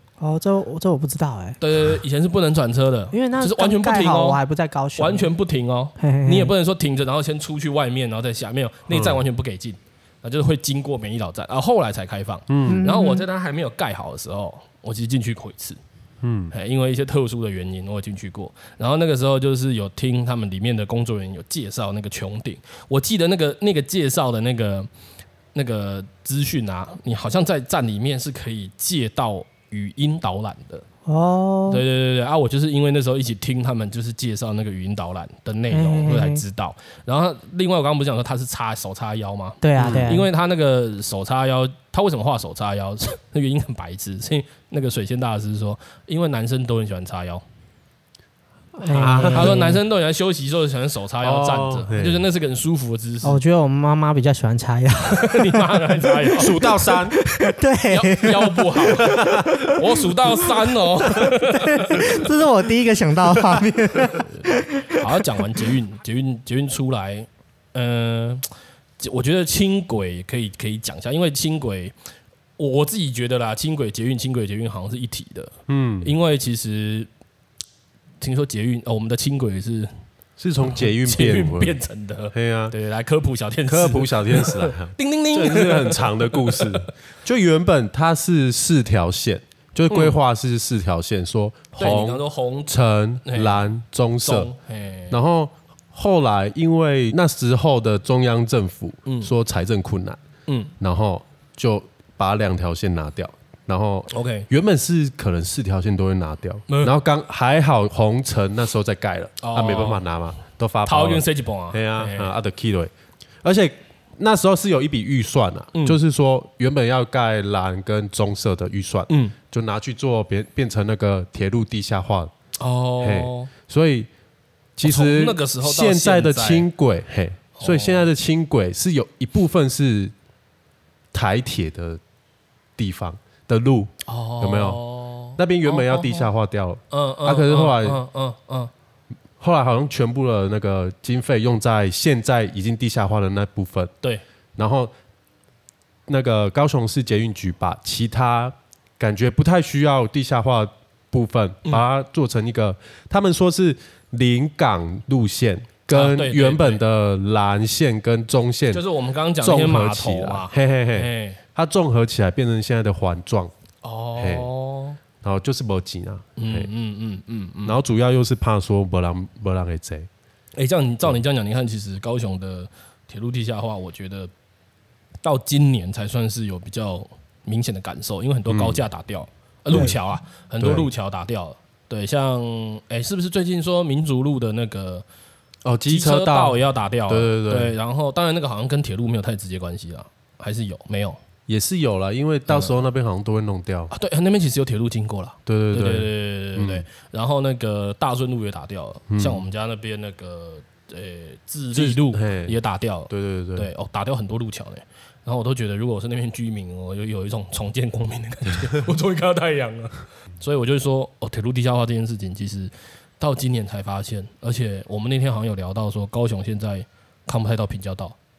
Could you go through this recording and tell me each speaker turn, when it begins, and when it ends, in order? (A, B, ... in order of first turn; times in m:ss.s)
0:00.2-0:01.6 A
0:01.6-0:04.4 B
0:03.1-0:05.3 A
0:05.0-0:15.8 B
0:06.0-0:06.5 A
0:08.9-0:09.2 C
0:12.5-0:12.8 C
0:12.7-0:13.3 A
0:16.2-0:16.5 C
0:16.5-0:24.9 B
0:25.5-0:30.8 B
0:31.1-0:31.8 A
0:31.7-0:47.4 B
0:35.7-0:36.4 A
0:39.6-0:40.3 A
0:39.8-0:40.2 C
0:48.8-0:49.8 A
0:48.9-0:49.8 C
0:48.9-0:53.4 B
0:51.2-0:52.2 C
0:53.2-0:59.8 A
0:55.1-0:56.5 B
0:56.4-0:57.2 C
0:57.9-1:02.2 B
0:59.0-0:59.6 C
1:01.2-1:05.0 A
1:04.1-1:08.5 B
1:09.0-1:11.9 B
1:12.6-1:17.1 B
1:15.7-1:16.1 C
1:18.2-1:19.9 B
1:20.4-1:21.8 C
1:20.7-1:26.9 B
1:22.3-1:22.8 C
1:23.7-1:34.5 C
1:29.9-1:30.2 B
1:31.8-1:33.7 B
1:34.2-1:35.2 B
1:35.1-1:40.2 C
1:39.1-1:39.3 B
1:40.5-1:40.7 B
1:40.8-1:52.9 C
1:44.1-1:44.5 B
1:46.7-1:46.9 B
1:49.4-1:50.0 B
1:50.9-1:52.3 B
1:53.4-2:02.3 C
1:59.1-1:59.4 B
2:02.6-2:03.5 B
2:03.0-2:04.1 C
2:04.8-2:10.1 C
2:04.8-2:06.7 B
2:07.6-2:08.1 B
2:11.1-2:12.0 C
2:12.8-2:14.8 C
2:14.1-2:16.3 B
2:15.4-2:18.0 C
2:16.9-2:18.7 B
2:19.4-2:23.9 C
2:24.6-2:24.9 C
2:26.1-2:38.8 C
2:35.9-2:36.8 B
2:38.7-2:41.4 B
2:39.4-2:43.5 C
2:43.8-2:45.0 B
2:44.2-2:44.5 C
2:45.2-2:46.7 C
2:46.4-2:47.8 B
2:47.6-2:50.1 C
2:50.6-2:54.3 B
2:55.2-3:05.1 B
2:58.5-2:58.8 C
2:59.7-3:00.0 C
3:00.6-3:00.9 C
3:05.6-3:07.7 C
3:05.9-3:11.2 B
3:11.5-3:13.9 C
3:12.5-3:12.7 B
3:13.9-3:38.2 B
3:15.5-3:16.8 C
3:19.1-3:19.4 C
3:21.7-3:22.6 C
3:23.1-3:23.7 C